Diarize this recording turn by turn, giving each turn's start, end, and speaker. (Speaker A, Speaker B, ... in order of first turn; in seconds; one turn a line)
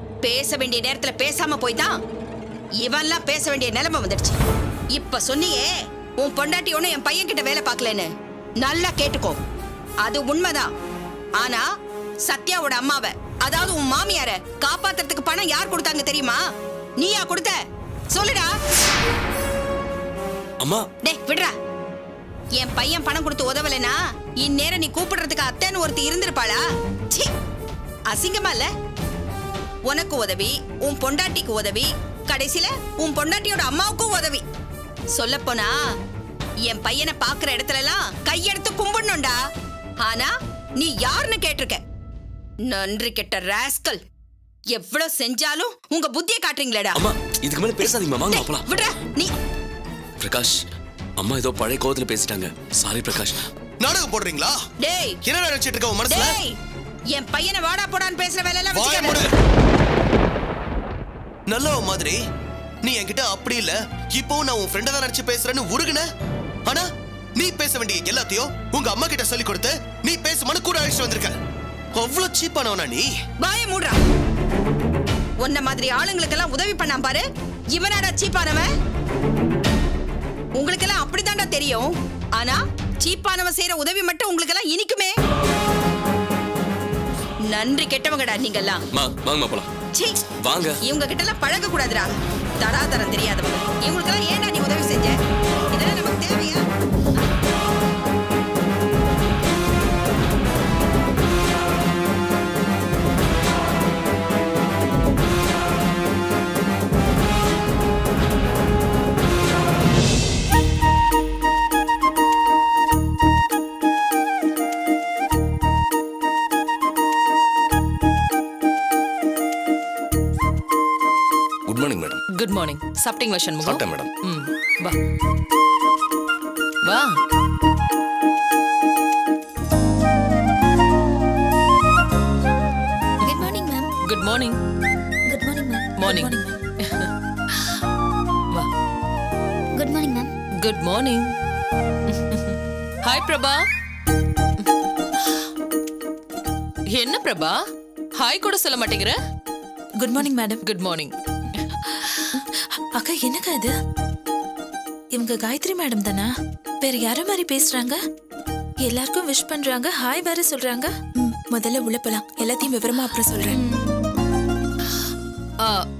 Speaker A: 0.2-1.9
Speaker A: 2.8-4.4
Speaker A: 4.9-5.7
Speaker A: 6.2-8.1
Speaker A: 8.6-9.4
Speaker A: 10.0-10.7
Speaker A: 12.3-16.4
Speaker A: 17.0-17.5
Speaker A: 18.1-18.5
Speaker B: 20.6-20.9
Speaker A: 21.0-21.5
Speaker A: 22.6-26.6
Speaker A: 28.1-28.7
Speaker A: 29.9-34.4
Speaker A: 35.1-35.7
Speaker A: 36.7-39.4
Speaker A: 40.0-41.8
Speaker A: 42.7-44.0
Speaker A: 44.7-47.0
Speaker B: 46.9-48.7
Speaker A: 47.8-49.3
Speaker B: 50.2-50.6
Speaker B: 51.2-53.5
Speaker C: 53.8-54.6
Speaker A: 54.8-55.2
Speaker C: 55.2-56.4
Speaker A: 56.1-56.5
Speaker A: 57.1-59.2
Speaker C: 58.7-59.3
Speaker C: 61.5-62.2
Speaker C: 62.8-66.0
Speaker C: 67.4-71.3
Speaker C: 72.0-73.1
Speaker A: 73.4-74.0
Speaker A: 75.4-77.2
Speaker A: 77.7-78.7
Speaker A: 80.6-85.2
Speaker A: 87.5-88.8
Speaker B: 88.9-89.7
Speaker A: 90.0-90.3
Speaker B: 90.4-90.8
Speaker A: 90.8-95.2
Speaker A: 95.7-96.6
Speaker B: 121.7-122.2
Speaker D: 122.4-125.0
Speaker B: 123.6-124.1
Speaker D: 126.9-127.2
Speaker E: 133.2-133.9
Speaker D: 134.1-134.6
Speaker E: 135.3-136.5
Speaker D: 136.0-137.1
Speaker E: 139.8-140.3
Speaker D: 140.6-141.3
Speaker D: 142.1-143.6
Speaker D: 146.9-147.6
Speaker D: 148.2-149.2
Speaker F: 150.0-150.6
Speaker D: 150.6-151.8
Speaker F: 153.0-153.7
Speaker F: 155.1-156.3
Speaker F: 156.8-158.0
Speaker F: 158.9-163.6